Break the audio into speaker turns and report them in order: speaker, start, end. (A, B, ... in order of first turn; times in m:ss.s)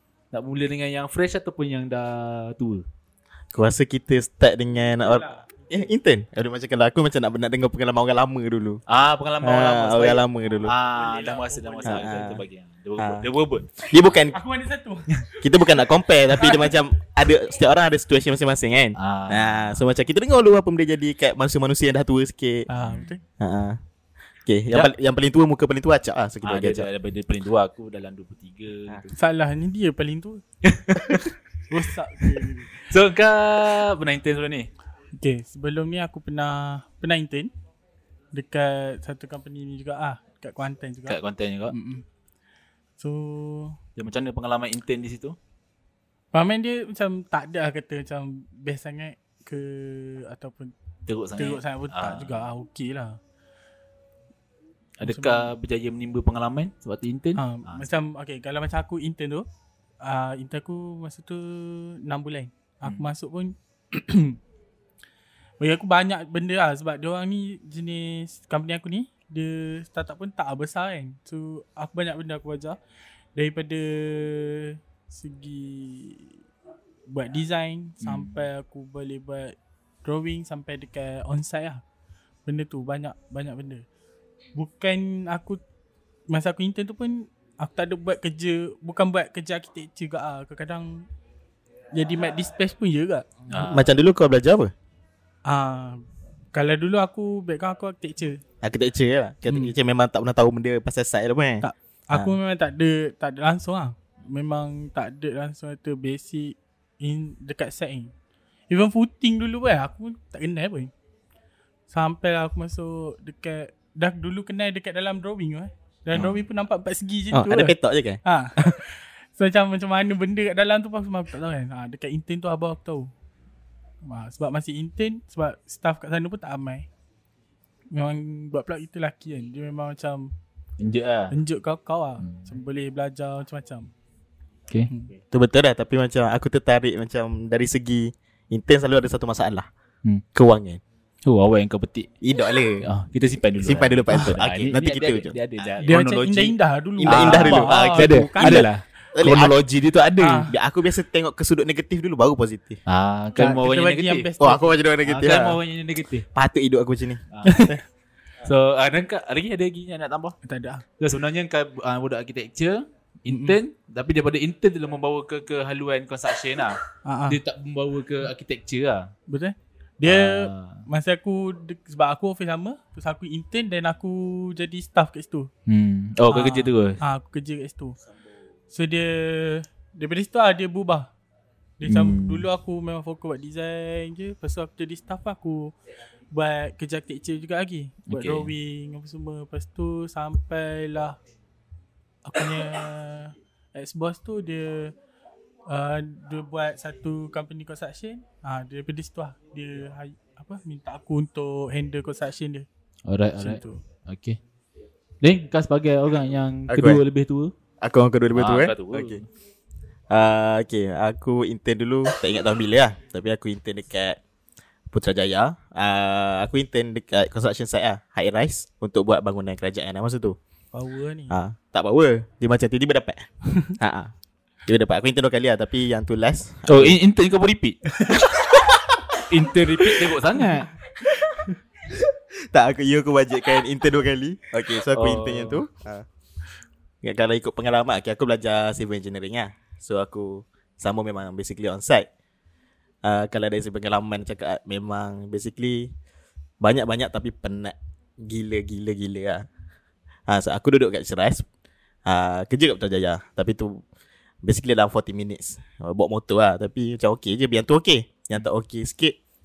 0:00.3-0:02.8 A
0:03.5-0:08.8 B
0:05.0-0:05.5 C
0:08.9-0:13.8 A
0:09.4-0:10.7 B
0:10.9-0:12.3 C
0:11.8-0:12.4 B
0:13.0-0:13.3 B
0:13.9-0:14.4 B
0:14.3-0:15.5 C
0:15.4-0:22.7 B
0:16.4-0:16.7 C
0:19.0-0:19.9 A
0:22.7-0:23.2 C
0:22.8-0:23.0 A
0:23.4-0:23.8 B
0:24.4-0:26.9 B
0:26.4-0:29.1 A
0:29.1-0:30.4 C
0:30.6-0:31.3 A
0:31.7-0:32.8 C
0:32.8-0:34.7 A
0:35.2-0:37.5 C
0:38.3-0:41.2 C
0:41.1-0:41.7 A
0:41.7-0:42.0 C
0:43.0-0:43.8 C
0:44.0-0:45.4 A
0:46.3-0:50.7 C
0:51.1-0:52.5 A
0:51.4-0:53.2 C
0:55.0-0:57.9 A
0:55.0-0:55.5 C
0:57.4-0:59.5 C
1:00.0-1:04.4 C
1:05.6-1:12.8 C
1:13.4-1:16.3 C
1:17.1-1:21.8 C
1:18.0-1:18.5 A
1:22.4-1:23.8 C
1:24.5-1:25.6 C
1:26.3-1:31.0 C
1:31.9-1:33.7 C
1:33.5-1:33.9 A
1:33.7-1:34.7 B
1:35.4-1:38.4 C
1:38.6-1:42.3 B
1:39.5-1:39.7 C
1:41.6-1:48.1 C
1:48.7-1:50.9 C
1:51.9-2:03.1 C
1:57.3-1:58.8 B
2:04.0-2:06.9 C
2:07.9-2:10.3 C
2:10.8-2:11.4 A
2:11.3-2:13.9 C
2:12.2-2:12.4 A
2:14.9-2:15.2 C
2:15.3-2:19.7 B
2:20.3-2:20.8 B
2:21.2-2:22.1 A
2:22.2-2:22.8 B
2:22.8-2:30.5 A
2:23.6-2:25.8 B
2:25.8-2:28.7 C
2:27.0-2:29.5 B
2:30.2-2:30.5 C
2:30.5-2:32.8 B
2:32.9-2:34.3 A
2:33.4-2:34.7 C
2:34.4-2:35.6 B
2:35.0-2:36.3 A
2:36.3-2:37.8 B
2:37.3-2:37.7 A
2:37.4-2:37.8 C
2:38.4-2:40.4 A
2:40.4-2:40.8 C
2:41.0-2:49.1 A
2:43.3-2:43.6 C
2:47.0-2:47.4 C
2:49.3-2:55.5 C
2:50.0-2:50.8 A
2:55.7-2:57.0 A
2:56.3-2:58.0 C
2:58.7-3:01.1 C
3:01.8-3:05.7 C
3:01.8-3:02.5 A
3:06.3-3:11.2 C
3:08.1-3:08.5 A
3:12.2-3:14.9 C
3:15.7-3:22.7 C
3:23.1-3:24.4 A
3:23.4-3:23.8 C
3:25.2-3:27.5 A
3:26.7-3:27.0 B
3:27.8-3:29.2 B
3:28.3-3:29.2 A
3:30.1-3:34.2 B
3:34.9-3:40.4 B
3:40.7-3:41.3 C
3:41.3-3:43.3 B
3:43.8-3:44.1 B
3:44.7-3:47.0 B
3:46.7-3:47.9 A
3:48.6-3:48.9 B
3:49.2-3:50.7 A
3:52.0-3:56.0 B
3:54.9-3:55.6 A
3:57.0-4:02.1 B
4:03.0-4:05.9 B
4:06.6-4:09.4 B
4:10.3-4:11.4 B
4:12.0-4:13.8 B
4:14.4-4:19.2 B